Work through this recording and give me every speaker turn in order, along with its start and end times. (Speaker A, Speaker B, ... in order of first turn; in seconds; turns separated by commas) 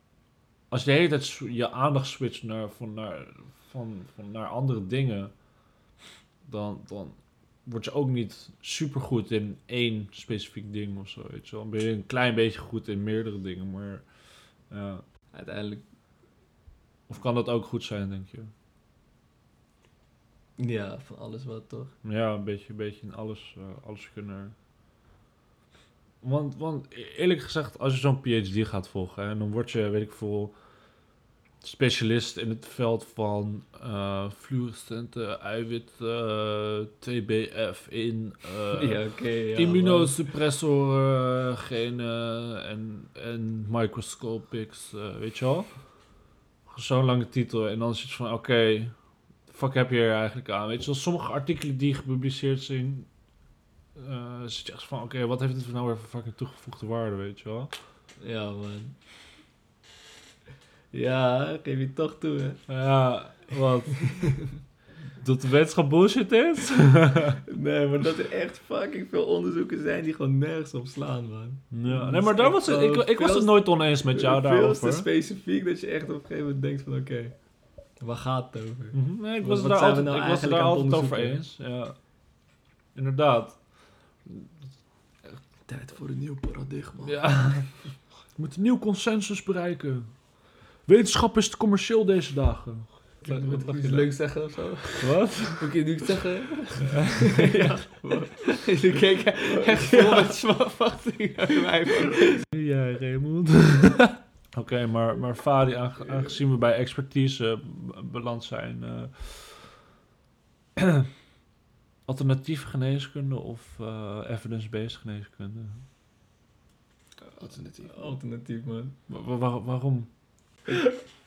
Speaker A: 0.7-5.3, Speaker A: 6.4-14.1, Speaker A: 14.7-15.1, Speaker B: 15.3-15.8, Speaker A: 17.1-18.5, Speaker B: 20.6-21.9, Speaker A: 22.0-24.6, Speaker A: 26.2-30.5, Speaker A: 31.6-45.8, Speaker B: 38.7-40.2, Speaker A: 46.7-49.0, Speaker A: 49.5-53.1, Speaker A: 54.0-57.7, Speaker B: 58.2-59.0, Speaker B: 60.9-62.6, Speaker A: 62.7-64.4, Speaker A: 65.2-67.4, Speaker B: 67.4-77.3, Speaker A: 71.7-75.1, Speaker B: 78.0-81.4, Speaker A: 78.9-82.0, Speaker A: 83.0-83.6, Speaker A: 84.3-84.5, Speaker B: 85.7-87.2, Speaker A: 87.0-87.8, Speaker A: 88.4-90.1, Speaker A: 90.9-94.1, Speaker B: 93.3-93.8, Speaker C: 93.6-95.0, Speaker A: 95.0-95.8, Speaker C: 95.6-96.9, Speaker A: 96.9-97.8, Speaker B: 97.2-98.7, Speaker C: 98.5-102.1, Speaker B: 99.5-100.4, Speaker A: 102.5-109.8, Speaker A: 110.8-111.1, Speaker A: 112.1-115.8, Speaker C: 117.4-118.0, Speaker B: 117.8-119.0, Speaker A: 119.1-120.1